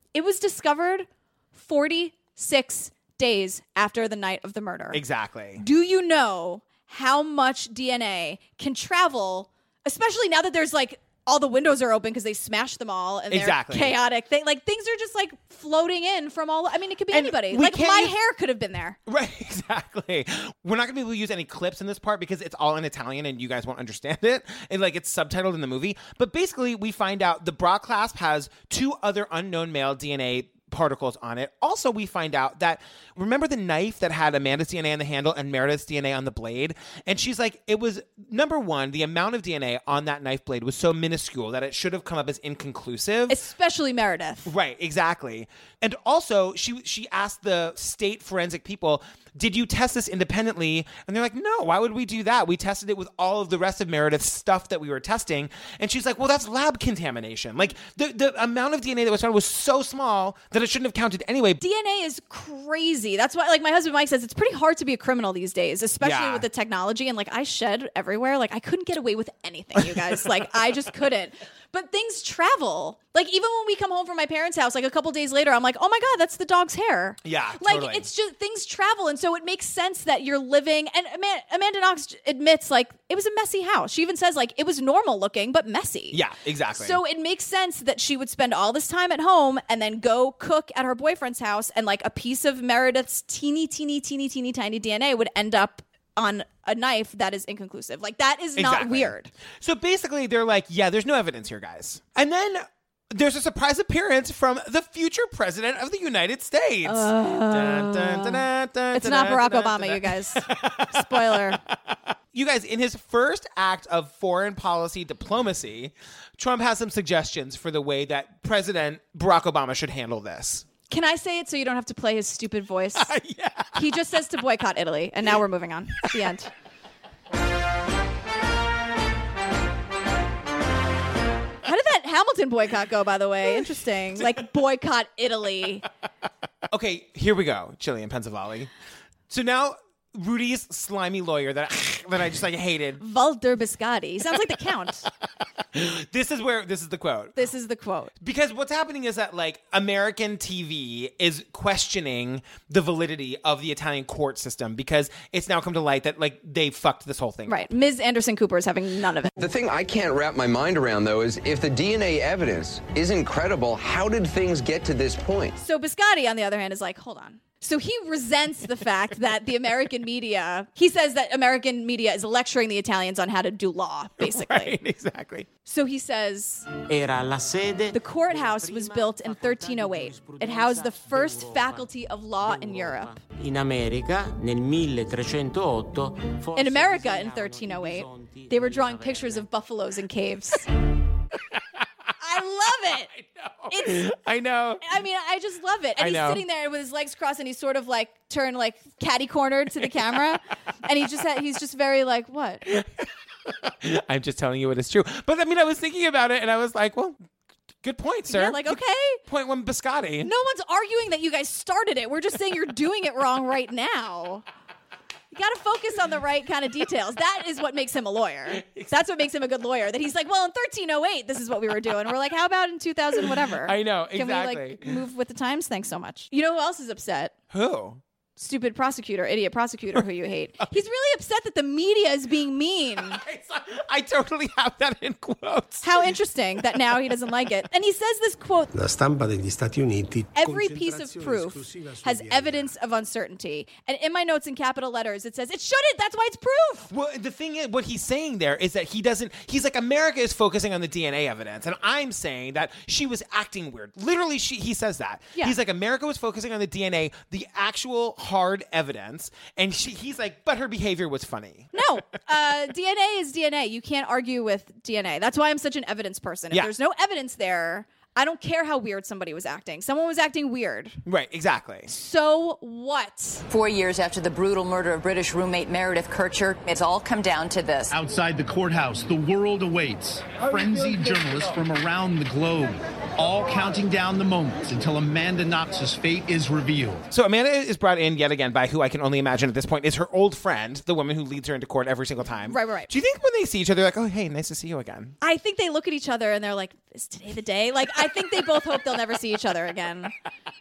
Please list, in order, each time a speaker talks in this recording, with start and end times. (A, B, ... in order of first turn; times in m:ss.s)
0:00.1-0:05.0 A
0:04.9-0:05.6 B
0:05.6-0:19.0 A
0:13.3-0:14.0 B
0:17.1-0:18.2 B
0:19.1-0:43.4 B
0:43.3-0:44.5 A
0:44.5-1:01.6 B
1:01.6-1:26.2 A
1:06.0-1:06.5 B
1:09.8-1:10.2 B
1:17.2-1:18.1 B
1:26.1-1:27.0 B
1:26.8-1:39.3 A
1:38.6-1:51.6 B
1:46.8-1:51.6 A
1:52.3-2:00.7 B
2:00.9-2:03.1 A
2:03.0-2:03.8 B
2:03.7-2:06.5 A
2:11.6-2:15.9 A
2:16.7-2:18.7 B
2:19.3-2:23.0 B
2:23.0-2:25.1 A
2:25.7-2:27.4 B
2:27.4-2:28.1 A
2:28.2-2:37.6 B
2:37.5-2:39.3 A
2:39.4-2:45.6 C
2:45.6-2:54.8 A
2:54.2-2:55.5 B
2:55.6-2:56.7 A
2:56.9-3:01.9 D
2:57.9-3:03.2 A
3:02.4-3:09.5 D
3:06.6-3:10.7 A
3:12.2-3:13.1 A
3:13.1-3:14.8 B
3:13.7-3:14.1 A
3:14.8-3:22.7 A
3:16.0-3:16.4 B
3:23.5-3:27.2 B
3:27.8-3:30.3 B
3:28.3-3:29.2 A
3:30.2-3:34.4 A
3:35.3-3:47.3 A
3:38.6-3:38.9 B
3:43.6-3:45.0 B
3:47.5-3:48.0 B
3:48.4-3:53.2 A
3:53.0-3:56.0 B
3:55.8-3:58.7 A
3:58.7-4:02.7 E
4:00.4-4:06.9 A
4:06.9-4:21.7 B
4:21.7-4:31.0 A
4:31.1-4:31.9 B
4:31.9-4:33.4 A
4:33.5-4:37.9 F
4:37.9-4:47.1 G
4:47.1-4:55.2 B
4:52.5-4:52.9 A
4:55.2-5:00.1 A